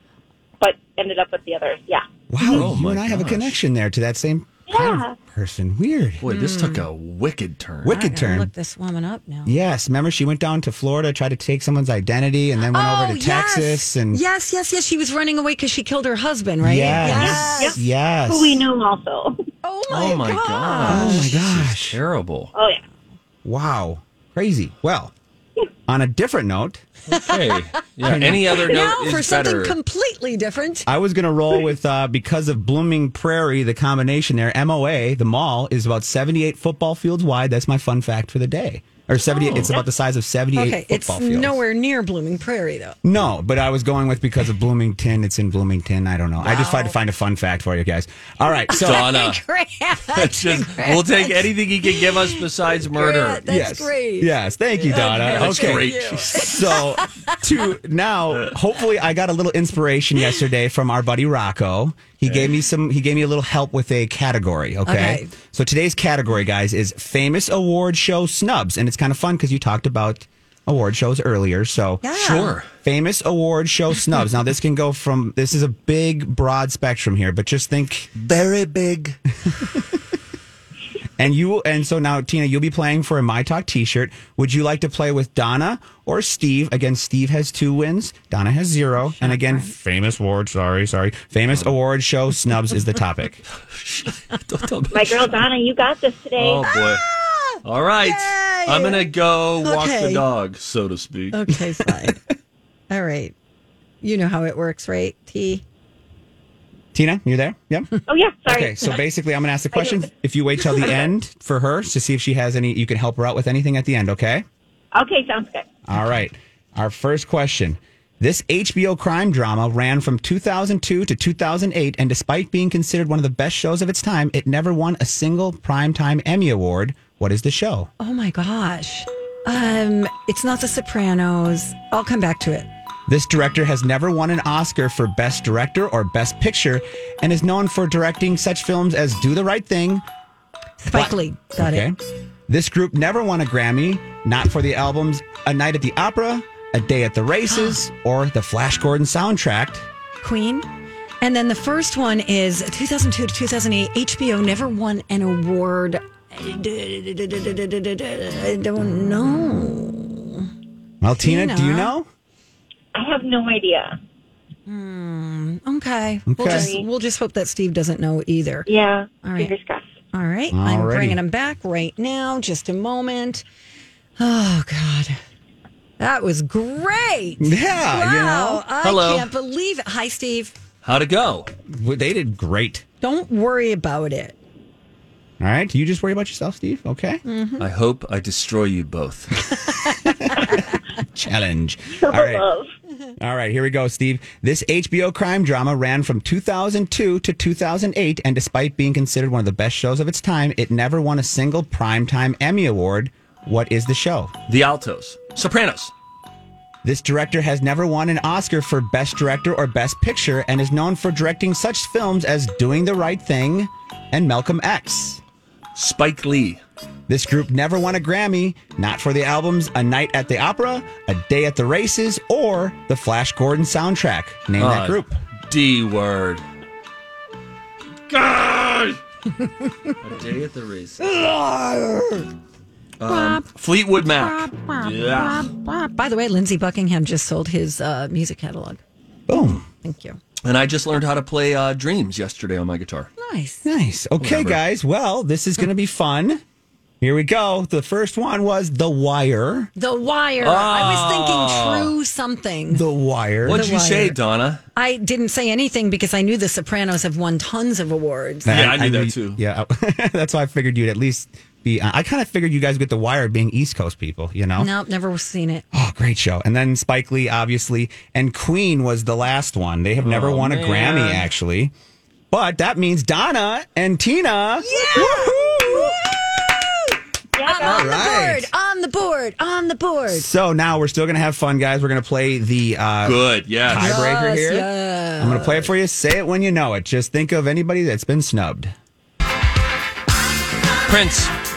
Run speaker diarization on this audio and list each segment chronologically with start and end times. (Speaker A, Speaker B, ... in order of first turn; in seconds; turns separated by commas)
Speaker A: 0.6-2.1, Speaker B: 2.3-6.2, Speaker C: 2.4-3.6, Speaker A: 4.7-5.2, Speaker C: 6.2-8.0, Speaker D: 6.3-6.9, Speaker B: 7.8-8.5, Speaker D: 7.9-9.6, Speaker B: 9.4-14.2, Speaker D: 12.7-17.8, Speaker B: 16.6-18.6, Speaker A: 17.1-19.5, Speaker D: 19.6-21.4, Speaker C: 19.9-22.5, Speaker B: 20.8-22.0, Speaker A: 22.6-22.8, Speaker B: 23.4-25.1, Speaker B: 25.9-26.8, Speaker C: 27.1-29.8, Speaker B: 28.0-28.6, Speaker D: 28.6-30.9, Speaker B: 30.9-41.6, Speaker D: 40.5-43.0, Speaker B: 43.0-49.2, Speaker D: 46.4-47.0, Speaker D: 48.7-57.5, Speaker C: 48.7-49.4, Speaker C: 50.1-53.4, Speaker B: 53.5-72.0, Speaker C: 54.9-56.8, Speaker C: 62.2-62.5, Speaker D: 64.9-65.3, Speaker D: 72.0-72.6, Speaker C: 72.1-72.7, Speaker B: 72.8-78.2, Speaker C: 78.2-79.2, Speaker B: 79.5-79.9, Speaker B: 81.2-93.4, Speaker D: 89.2-89.7, Speaker C: 93.7-95.4, Speaker A: 94.9-96.7, Speaker C: 96.4-97.0, Speaker D: 96.7-99.1, Speaker C: 97.6-101.4, Speaker D: 99.6-100.2, Speaker D: 101.3-102.2, Speaker D: 102.9-103.3, Speaker D: 104.0-105.6, Speaker B: 106.9-107.9, Speaker A: 108.1-109.0, Speaker B: 108.5-114.5, Speaker A: 109.7-110.1, Speaker A: 114.9-115.7, Speaker B: 115.9-127.9, Speaker D: 128.0-132.7, Speaker B: 133.1-140.0, Speaker D: 140.8-141.9, Speaker B: 140.9-142.0, Speaker B: 142.5-149.9, Speaker D: 147.5-147.8, Speaker D: 150.2-150.7, Speaker D: 151.2-160.5, Speaker B: 161.0-162.1, Speaker D: 161.2-161.9, Speaker A: 162.9-164.0, Speaker D: 164.7-168.7, Speaker B: 166.3-166.7, Speaker A: 166.4-166.9, Speaker A: 168.7-169.9, Speaker D: 169.2-169.5, Speaker D: 170.1-173.4, Speaker B: 170.5-171.2, Speaker D: 174.2-175.2, Speaker D: 176.0-180.6, Speaker B: 177.4-178.6, Speaker C: 178.8-179.3, Speaker C: 180.8-181.5, Speaker B: 181.7-182.8, Speaker D: 183.0-184.4, Speaker B: 185.4-187.2, Speaker D: 187.3-187.7, Speaker C: 187.6-189.4, Speaker B: 191.2-192.4, Speaker A: 191.9-192.7, Speaker B: 193.2-204.3, Speaker C: 204.5-205.9, Speaker B: 206.8-215.2, Speaker C: 215.8-216.6, Speaker B: 217.1-225.2, Speaker C: 224.6-226.4, Speaker C: 228.1-229.0, Speaker C: 230.0-231.0, Speaker D: 231.1-232.3, Speaker C: 233.0-235.5, Speaker D: 233.1-233.5, Speaker D: 234.0-238.8, Speaker B: 239.3-239.7, Speaker D: 239.8-240.2, Speaker C: 240.4-243.1, Speaker D: 243.2-243.7, Speaker B: 243.7-246.4, Speaker C: 244.2-244.6, Speaker B: 247.0-249.7, Speaker D: 249.8-252.8, Speaker C: 250.4-251.9, Speaker B: 252.7-253.7, Speaker C: 253.4-254.6, Speaker D: 253.5-254.2, Speaker D: 254.8-258.6, Speaker B: 258.5-264.7, Speaker C: 258.5-259.4, Speaker D: 264.6-265.6, Speaker B: 265.7-271.7, Speaker C: 270.0-271.3, Speaker B: 272.3-276.0, Speaker D: 274.6-280.3, Speaker A: 277.4-278.0, Speaker B: 277.6-278.5, Speaker B: 280.1-288.7, Speaker C: 283.0-284.1, Speaker D: 283.8-285.7, Speaker C: 290.9-291.3